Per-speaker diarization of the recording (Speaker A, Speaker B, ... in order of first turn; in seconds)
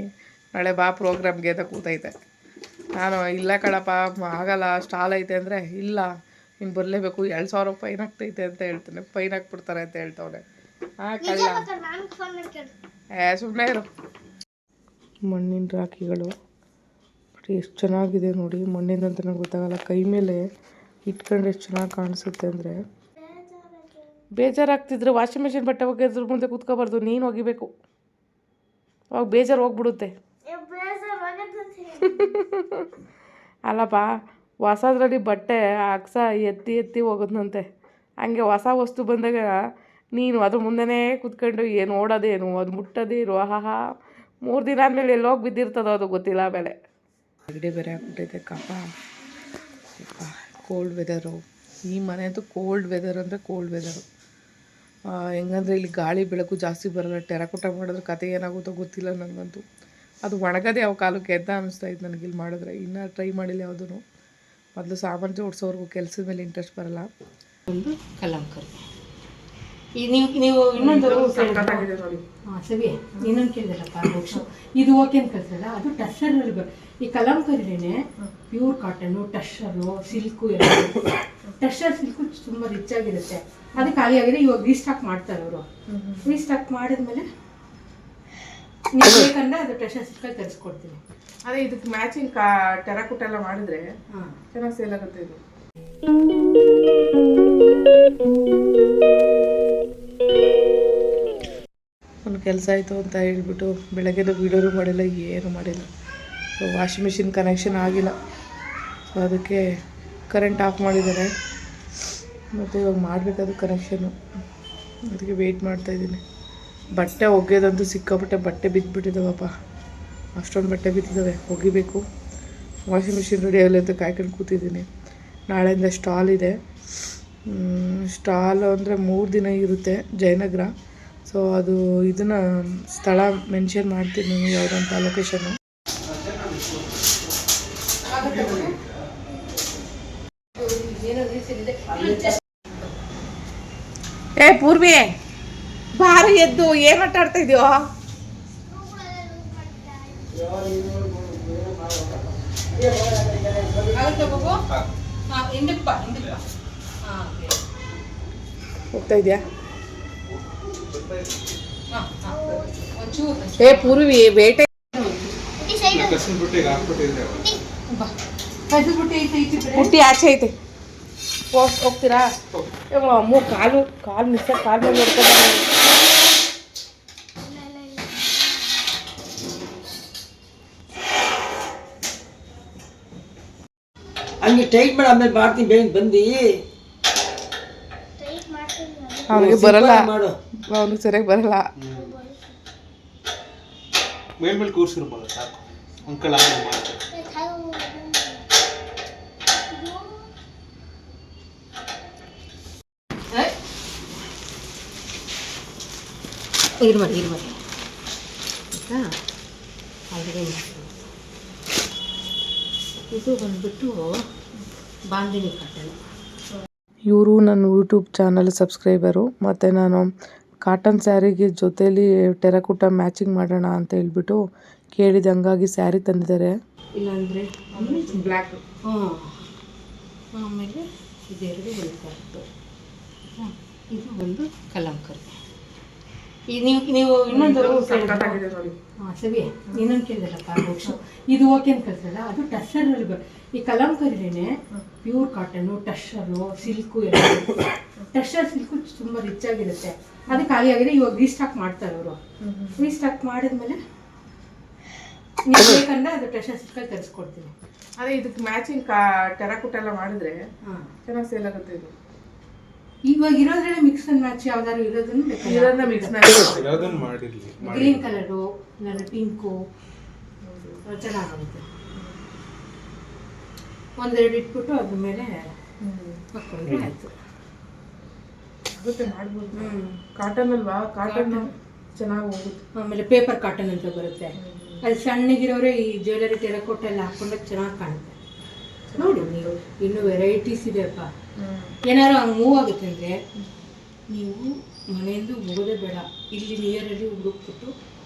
Speaker A: 0.6-2.1, 3.0-6.1, 6.6-10.4, 11.0-11.7, 13.2-13.9, 15.3-16.3, 17.4-20.4, 21.1-22.8, 24.4-27.7, 29.1-30.1, 32.1-32.9, 33.7-34.1, 34.6-37.6, 38.2-39.6, 40.1-43.8, 44.5-46.8, 47.5-48.9, 50.0-54.0, 55.4-59.6, 60.2-64.0, 64.8-67.1, 70.8-72.2, 85.9-86.4, 91.5-93.9, 94.5-95.4, 102.2-105.9, 106.6-108.1, 109.1-109.7, 110.3-111.3, 112.6-114.1, 115.1-116.2, 116.9-119.5, 120.4-122.0, 122.9-124.9, 125.5-126.5, 127.5-130.7, 131.3-135.6, 144.4-145.1, 145.9-147.8, 158.9-159.4, 163.6-164.7, 169.7-170.5, 171.5-172.3, 172.9-175.7, 189.3-190.1, 190.7-191.6, 217.1-220.1, 220.6-224.4, 224.9-226.5, 227.8-228.6, 237.3-238.8, 252.4-252.9, 258.0-260.4, 261.1-261.9, 265.4-267.1, 270.4-270.8, 275.8-276.2, 278.7-282.6, 284.4-284.9, 288.9-290.2, 291.4-291.8
Speaker B: 11.2-12.7, 23.2-24.1, 30.5-32.4, 148.5-151.1, 162.3-162.9, 165.6-166.2, 167.3-167.6, 177.4-178.9, 188.2-189.5, 191.9-192.6, 197.1-198.5, 199.6-200.3
Speaker C: 67.7-68.8, 70.0-71.9, 72.5-85.7, 86.2-87.3, 88.9-91.0, 138.1-138.8, 140.6-142.6, 153.7-154.7, 155.3-156.4, 157.0-157.6, 161.9-164.0, 164.9-165.4, 168.7-169.9, 206.8-207.6, 208.7-209.1, 210.1-211.0, 213.1-214.1, 215.1-216.0, 227.0-228.3, 228.9-229.5, 230.3-232.5, 233.4-235.3, 236.5-238.4, 239.0-252.2, 252.8-253.8, 255.5-257.5, 260.6-260.9, 263.1-266.2, 267.6-269.6, 270.9-271.6, 274.0-275.6, 276.3-277.1, 279.5-280.0, 281.1-281.6, 282.8-288.2, 289.0-291.1, 291.9-293.2, 294.1-297.7
Speaker D: 165.9-167.5, 191.8-192.1, 194.4-197.0, 266.5-268.1
Speaker E: 184.4-186.5, 189.4-190.3